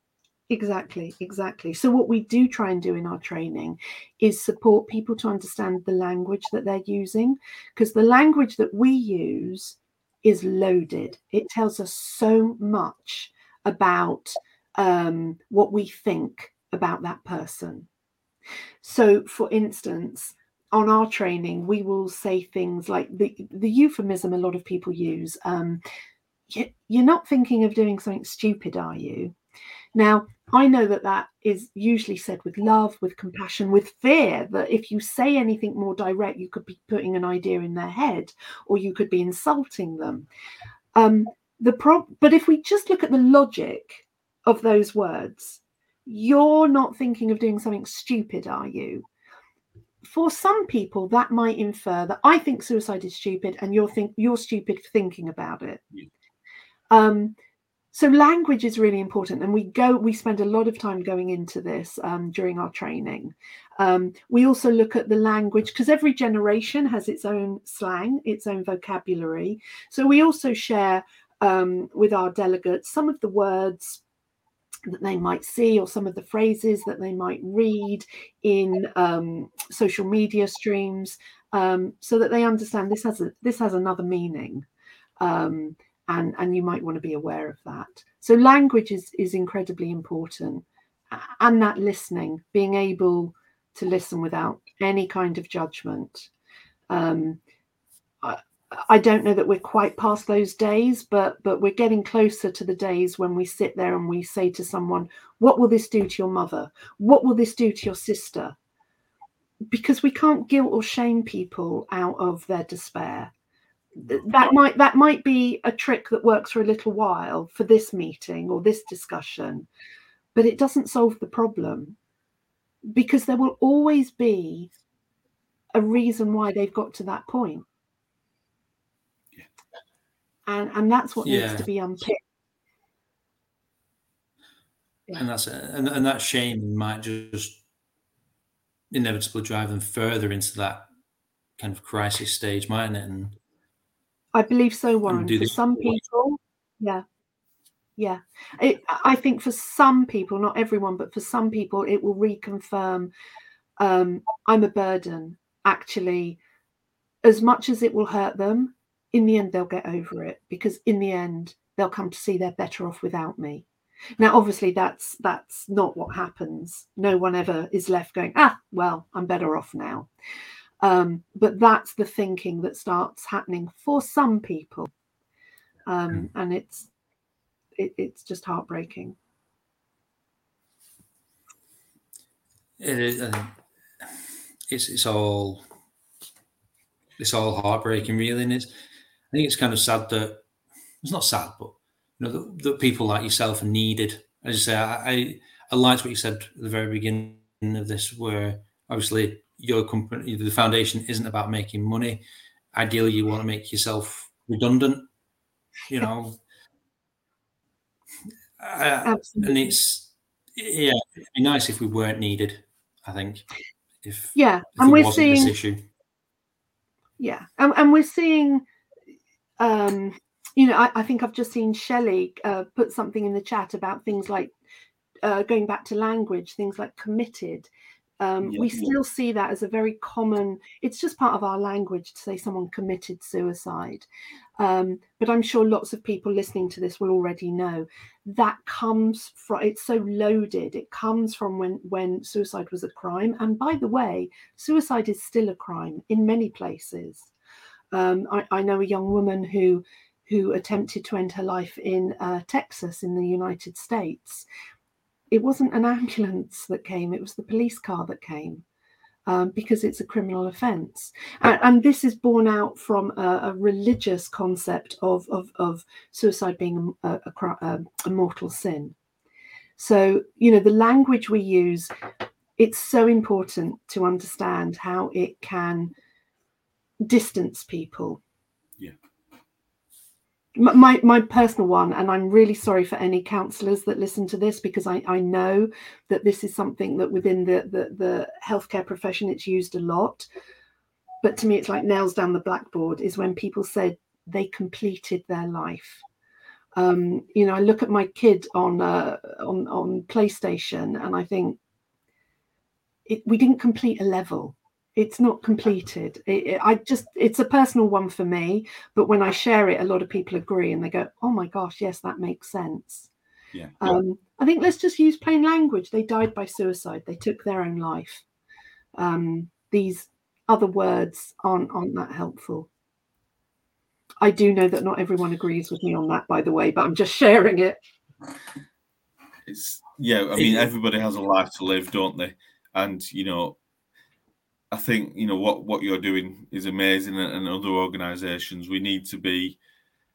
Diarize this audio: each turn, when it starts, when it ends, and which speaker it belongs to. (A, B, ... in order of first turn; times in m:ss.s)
0:00.5-0:17.9 A
0:18.8-0:25.8 A
0:26.5-0:29.4 A
0:30.0-0:40.3 A
0:41.0-0:49.1 A
0:50.0-0:55.8 A
0:56.9-0:57.4 A
0:57.9-1:14.0 A
1:14.9-1:24.7 A
1:25.2-1:36.3 A
1:36.9-1:37.4 A
1:38.2-1:48.6 A
1:49.7-1:53.3 A
1:54.0-1:59.7 A
2:00.4-2:02.0 A
2:02.9-2:04.7 A
2:05.7-2:07.7 A
2:10.5-2:12.2 A
2:11.2-2:11.7 B
2:15.2-2:17.6 B
2:18.9-2:20.9 B
2:21.6-2:23.4 B
2:24.4-2:27.0 A
2:25.1-2:25.9 B
2:28.0-2:33.1 A
2:33.8-2:36.4 A
2:37.2-2:43.7 A
2:44.2-2:50.1 A
2:50.8-2:54.9 A
2:55.9-2:56.9 A
2:57.8-2:59.2 A
3:02.8-3:04.1 B
3:04.7-3:05.7 B
3:07.2-3:08.7 B
3:09.3-3:10.4 B
3:11.0-3:25.1 B
3:25.9-3:26.4 B
3:28.6-3:33.5 B
3:29.0-3:29.7 A
3:34.0-3:35.8 B
3:34.4-3:35.6 A
3:37.2-3:38.6 A
3:39.6-3:44.5 A
3:45.2-3:47.7 A
3:48.2-3:54.1 A
3:48.4-3:49.0 C
3:54.6-4:07.3 A
4:07.9-4:14.5 A
4:15.3-4:18.6 A
4:19.3-4:29.0 A
4:29.8-4:31.9 A
4:32.6-4:35.9 A
4:37.0-4:38.2 A
4:40.6-4:50.3 A
4:51.2-4:56.0 A
4:56.8-5:01.6 A
5:03.1-5:13.1 A
5:13.5-5:14.0 C
5:13.8-5:18.2 A
5:19.0-5:22.7 A
5:24.2-5:27.8 A
5:29.5-5:33.6 C
5:34.7-5:39.6 C